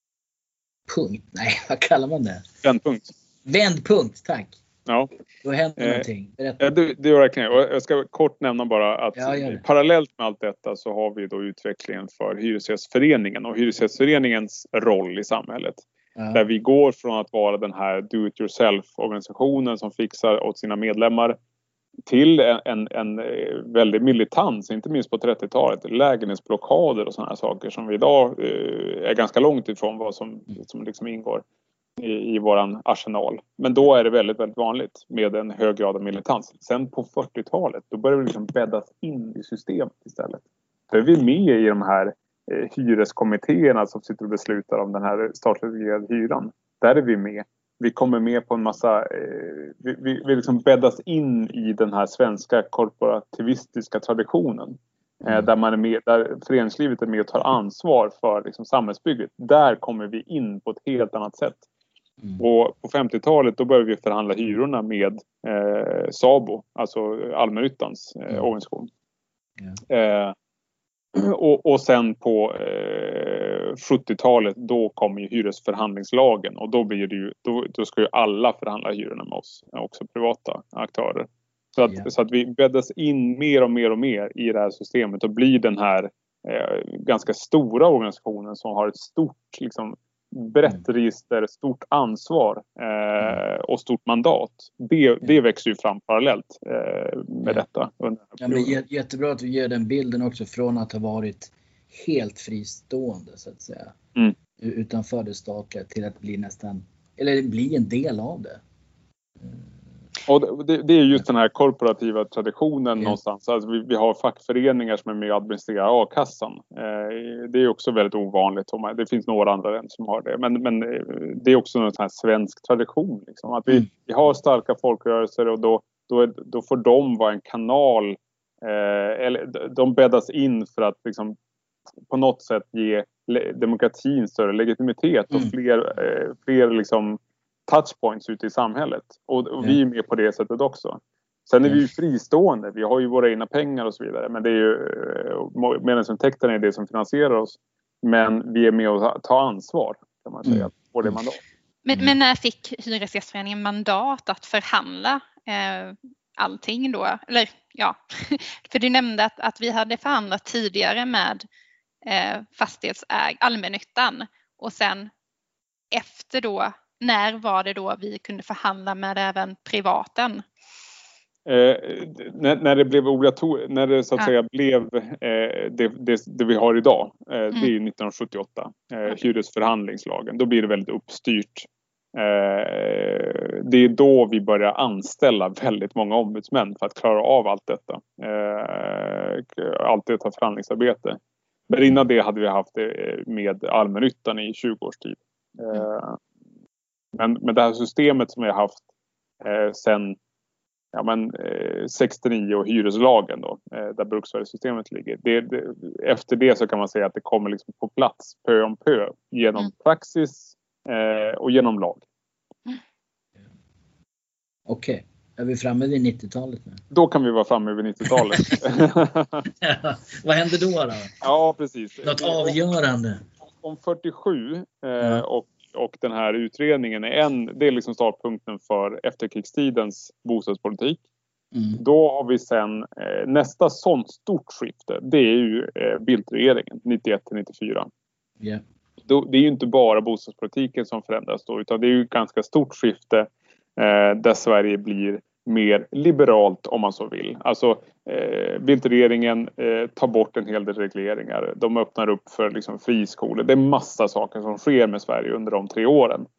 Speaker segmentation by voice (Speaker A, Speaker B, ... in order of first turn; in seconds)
Speaker A: 0.9-2.5, 3.4-4.6, 5.4-6.7, 9.1-9.6, 16.1-16.4, 98.4-103.9, 104.6-108.6, 109.4-109.7, 214.7-216.8, 218.3-218.6, 219.5-221.1, 222.0-223.2, 231.5-231.8
Speaker B: 2.6-3.1, 5.8-6.0, 6.6-21.4, 22.1-31.4, 32.0-61.6, 62.4-68.9, 69.9-70.3, 71.1-98.7, 110.2-131.3, 132.1-151.4, 171.4-191.2, 191.7-196.2, 197.1-198.8, 199.4-200.2, 200.9-212.0, 216.9-219.5, 221.2-222.6, 223.6-231.0, 231.8-237.9, 239.1-256.3
Speaker C: 151.8-161.4, 162.0-165.1, 165.9-170.4